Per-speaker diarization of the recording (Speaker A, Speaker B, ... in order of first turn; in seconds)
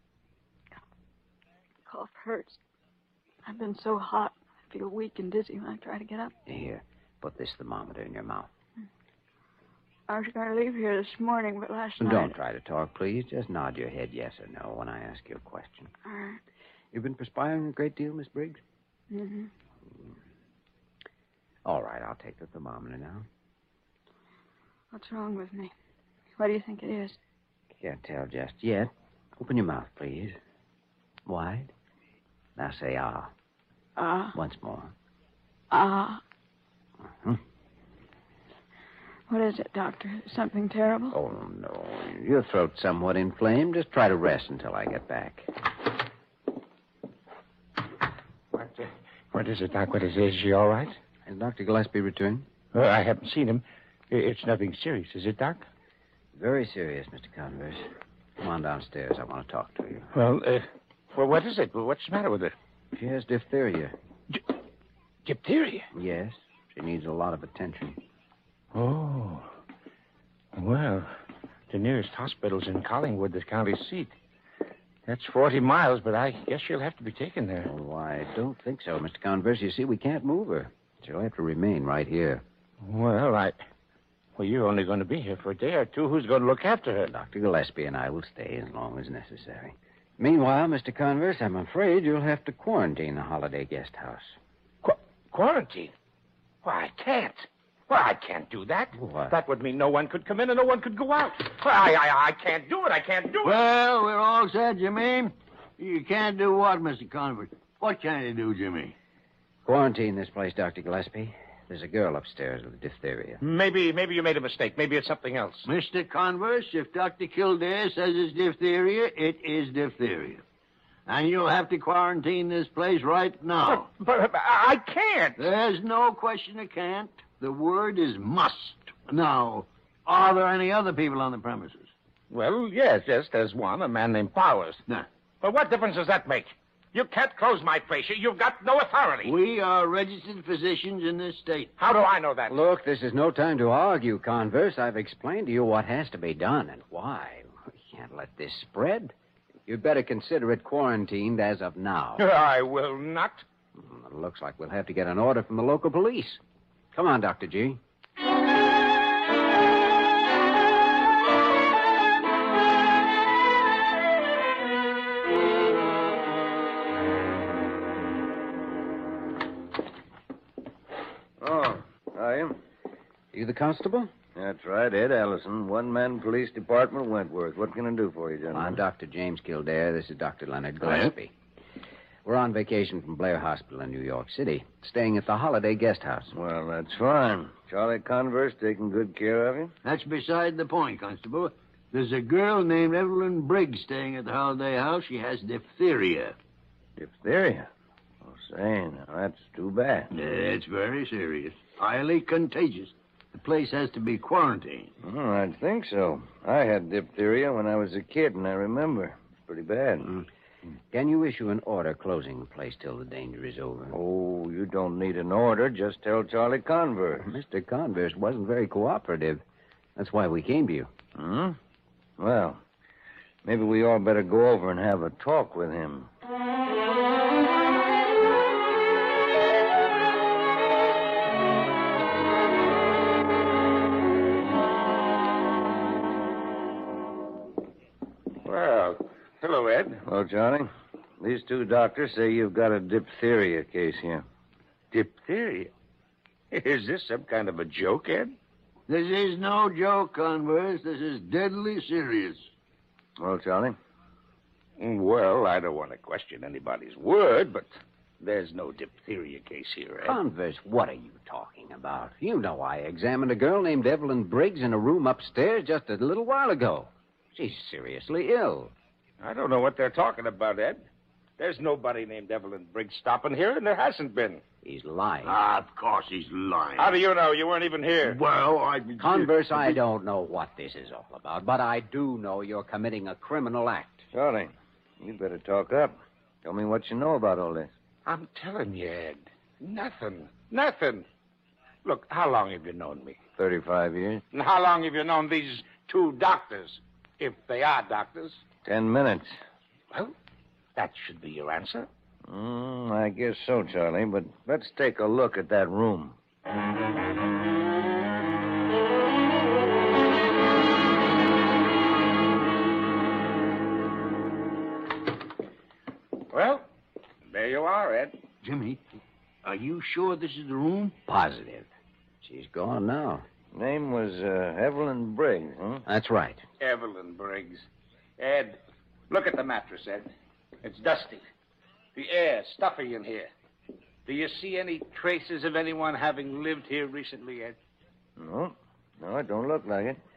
Speaker A: 1.9-2.6, 3.5-6.3, 10.1-12.3, 16.0-16.4, 19.1-19.5, 24.9-25.7, 26.4-27.2, 34.0-34.4, 35.7-36.2, 39.3-41.2
Speaker B: 6.5-8.5, 12.0-15.9, 16.9-18.6, 21.6-23.3, 27.8-30.4, 31.3-31.7, 32.6-33.3, 34.3-34.9, 37.1-37.4, 41.1-45.5, 51.3-52.5, 56.4-57.8, 58.4-60.1, 63.0-63.9, 65.9-68.0, 77.6-82.4, 87.0-94.4, 99.0-99.4, 109.7-113.4, 142.5-149.1, 149.7-152.2, 153.8-156.4, 156.9-157.8, 173.3-174.1, 178.5-181.3, 182.2-186.3, 210.9-214.0, 217.2-219.4, 220.0-220.9, 260.0-268.7, 274.6-275.4, 279.0-284.1, 321.1-321.7, 322.2-323.2, 325.9-326.4
Speaker C: 48.5-51.0, 52.7-55.6, 60.1-62.5, 65.3-65.9, 68.7-69.5, 70.5-71.1, 71.7-74.1, 75.1-77.7, 82.8-83.6, 84.4-87.1, 94.8-95.9, 96.6-103.6, 113.4-115.7, 123.7-125.5, 132.3-134.8, 135.4-139.4, 141.8-142.6, 152.2-153.4, 238.4-240.0, 244.9-245.7, 246.5-248.3, 254.8-260.2, 269.2-270.9, 271.4-274.4, 276.8-278.2, 288.1-291.1, 291.9-293.2, 294.3-298.4, 300.8-301.9, 316.3-316.6, 317.3-318.2, 326.6-327.7, 328.2-328.6, 329.1-330.1, 330.6-331.2, 331.9-333.3, 334.1-337.6
Speaker D: 103.4-108.9, 115.7-120.4, 121.1-123.9, 125.4-131.9, 139.2-141.7, 180.8-181.1, 189.8-196.3, 200.1-204.9, 248.9-252.5, 275.2-277.0, 278.0-279.8, 318.4-318.8, 319.4-320.9
Speaker E: 171.4-172.6, 174.4-178.8, 186.3-189.7, 197.0-197.7, 198.2-200.1, 205.0-210.1, 213.9-217.3, 221.2-221.6, 222.2-222.6, 223.4-226.1, 240.0-244.2, 253.2-253.8, 284.1-287.7, 293.4-294.2, 298.6-299.3, 302.3-306.1, 323.5-325.8, 338.2-340.0